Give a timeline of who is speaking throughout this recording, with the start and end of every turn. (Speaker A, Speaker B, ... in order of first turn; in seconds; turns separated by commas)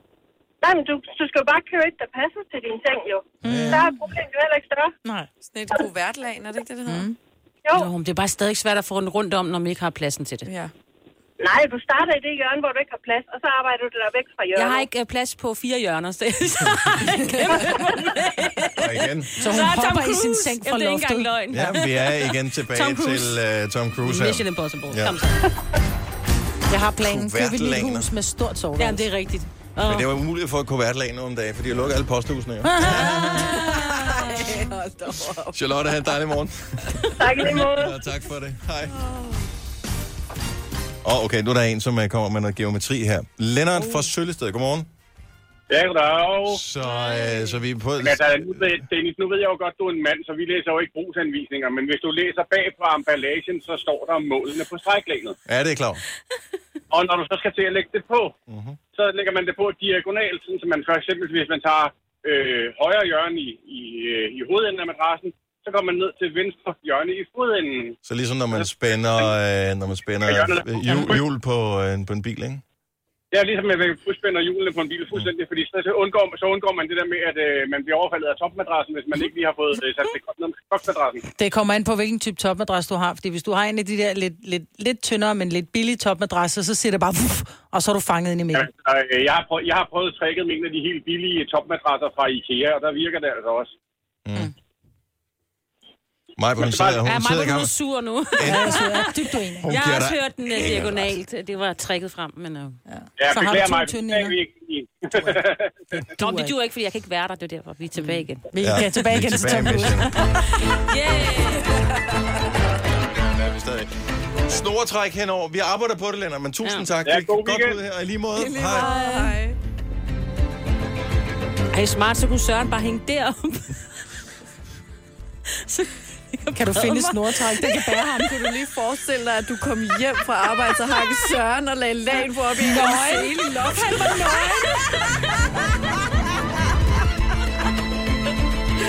Speaker A: 0.6-4.9, Speaker B: 3.4-3.9, Speaker C: 3.4-4.0, Speaker D: 5.5-7.1, Speaker E: 7.7-10.5, Speaker D: 10.5-10.7, Speaker A: 11.4-14.9, Speaker E: 14.6-23.4, Speaker B: 18.8-19.3, Speaker C: 19.4-21.6, Speaker B: 21.5-25.2, Speaker E: 24.0-25.5, Speaker C: 26.7-29.1, Speaker B: 27.1-28.1, Speaker E: 28.8-30.1, Speaker B: 29.8-33.7, Speaker C: 32.6-33.5, Speaker E: 33.3-34.6, Speaker D: 33.4-35.7, Speaker B: 35.5-39.0, Speaker A: 37.1-38.0, Speaker D: 39.0-39.4, Speaker B: 41.0-44.9, Speaker F: 45.7-46.6, Speaker B: 46.5-48.8, Speaker E: 47.1-47.4, Speaker F: 48.0-55.4, Speaker B: 55.5-56.0, Speaker F: 56.9-58.3, Speaker B: 58.5-58.8, Speaker F: 59.0-68.0, Speaker B: 68.0-72.6, Speaker F: 70.2-71.2, Speaker F: 73.3-81.2, Speaker C: 81.4-88.7, Speaker F: 88.5-93.7, Speaker B: 94.3-94.5, Speaker B: 96.4-97.7, Speaker F: 96.6-97.0, Speaker E: 97.0-99.1, Speaker B: 98.4-99.0, Speaker C: 98.4-99.7, Speaker B: 99.6-101.2, Speaker E: 99.7-102.8, Speaker C: 102.9-104.4, Speaker F: 103.2-105.7, Speaker C: 105.9-106.5, Speaker E: 106.2-108.5, Speaker C: 108.0-110.1, Speaker B: 108.6-110.2, Speaker E: 109.8-111.8, Speaker D: 111.7-112.3, Speaker B: 113.2-113.9, Speaker B: 114.5-119.0, Speaker E: 116.6-116.9, Speaker F: 117.0-117.8, Speaker D: 118.4-119.6, Speaker E: 118.7-119.4, Speaker E: 121.7-123.8, Speaker E: 125.7-128.4, Speaker C: 126.5-128.4, Speaker D: 128.2-134.8, Speaker C: 132.6-133.3, Speaker E: 132.6-134.6